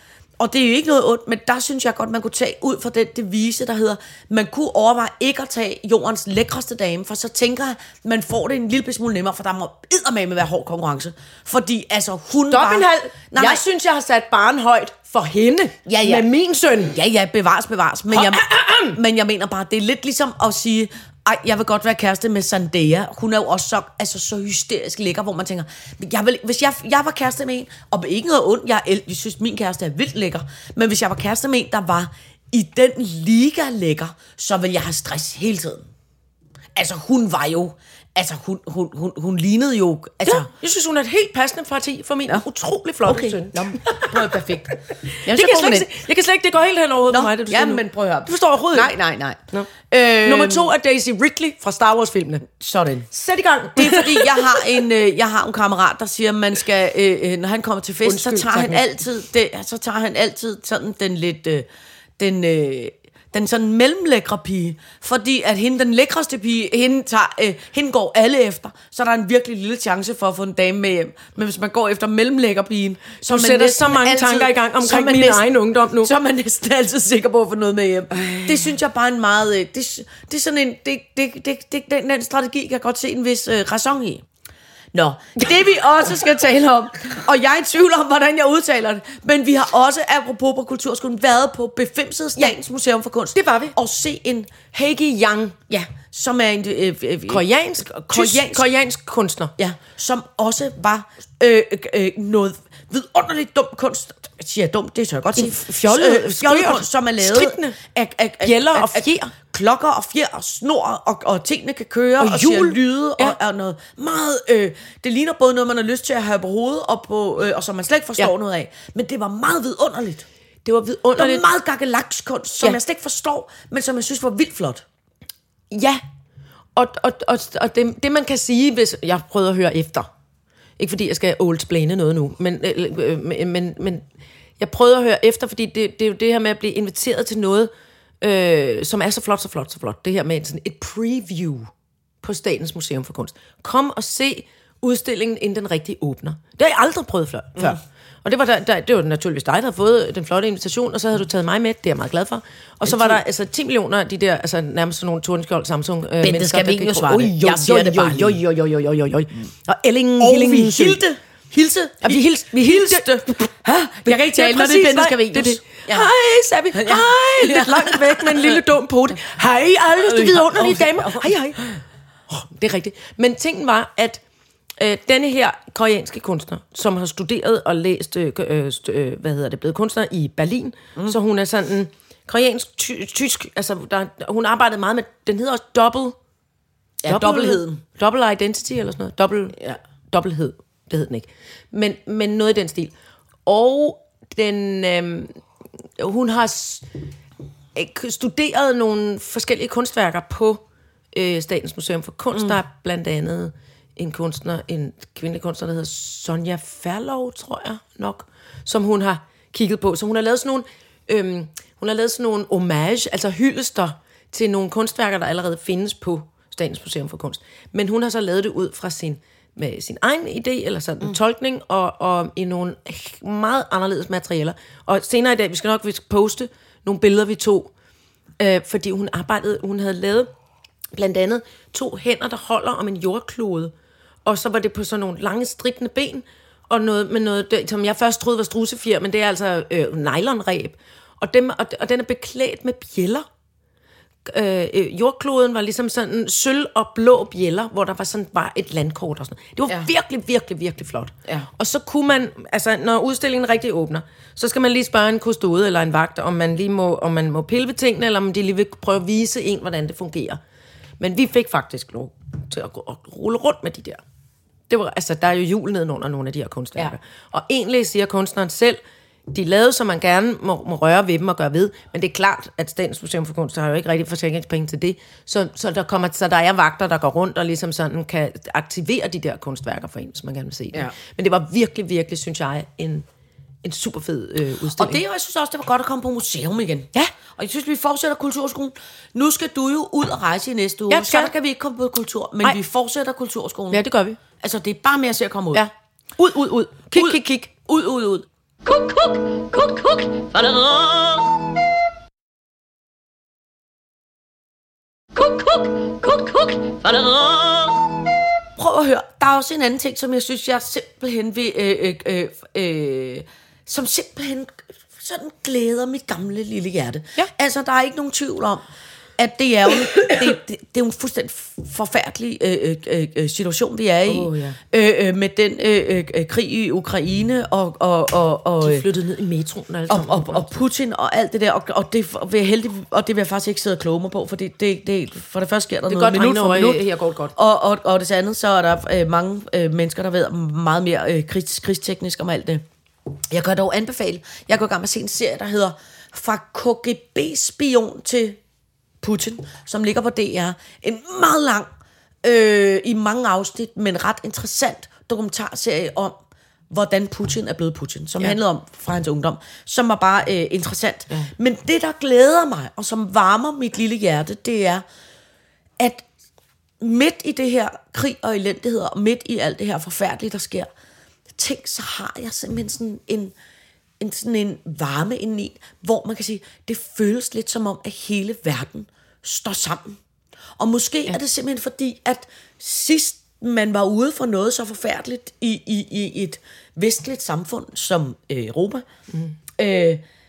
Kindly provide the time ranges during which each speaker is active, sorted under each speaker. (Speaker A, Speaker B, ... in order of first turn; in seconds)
Speaker A: 0.4-13.6, 15.8-16.2, 16.9-35.9, 36.7-40.5, 43.0-44.7, 45.2-45.9, 47.1-50.7, 52.5-53.1, 53.7-61.7, 62.2-84.2, 84.9-94.5, 95.7-98.7, 99.6-120.2, 121.2-124.8, 152.8-153.2, 156.2-158.4, 160.2-166.1, 166.7-168.6, 170.0-171.3, 187.0-187.8, 284.8-293.8, 294.4-295.6, 296.9-298.2, 308.6-318.6, 319.2-328.8, 329.9-336.8, 337.3-342.6, 343.3-348.4, 349.0-351.7, 352.2-356.2, 356.7-364.8, 365.8-366.0, 366.8-370.7, 371.4-373.3, 374.0-380.0, 380.6-388.8, 389.6-390.0
Speaker B: 12.5-16.9, 18.1-19.0, 40.2-48.9, 50.2-52.5, 53.1-54.7, 58.0-58.9, 73.2-76.1, 93.3-93.7, 94.7-95.5, 97.3-99.5, 105.3-107.8, 108.4-109.3, 112.2-113.3, 120.6-121.4, 125.7-126.0, 126.8-130.1, 130.8-134.0, 134.6-141.7, 142.2-161.0, 162.0-163.5, 164.0-171.7, 172.3-174.2, 174.8-186.2, 187.1-189.6, 190.1-192.9, 193.4-195.4, 196.0-196.9, 197.7-200.6, 201.1-227.7, 228.4-230.3, 230.9-233.7, 234.2-243.2, 244.2-260.4, 261.0-264.0, 264.7-283.1, 283.6-285.0, 290.9-291.3, 293.7-294.2, 295.5-297.5, 324.1-324.6, 328.6-330.6, 335.9-337.3
Speaker C: 298.6-301.5, 305.1-308.0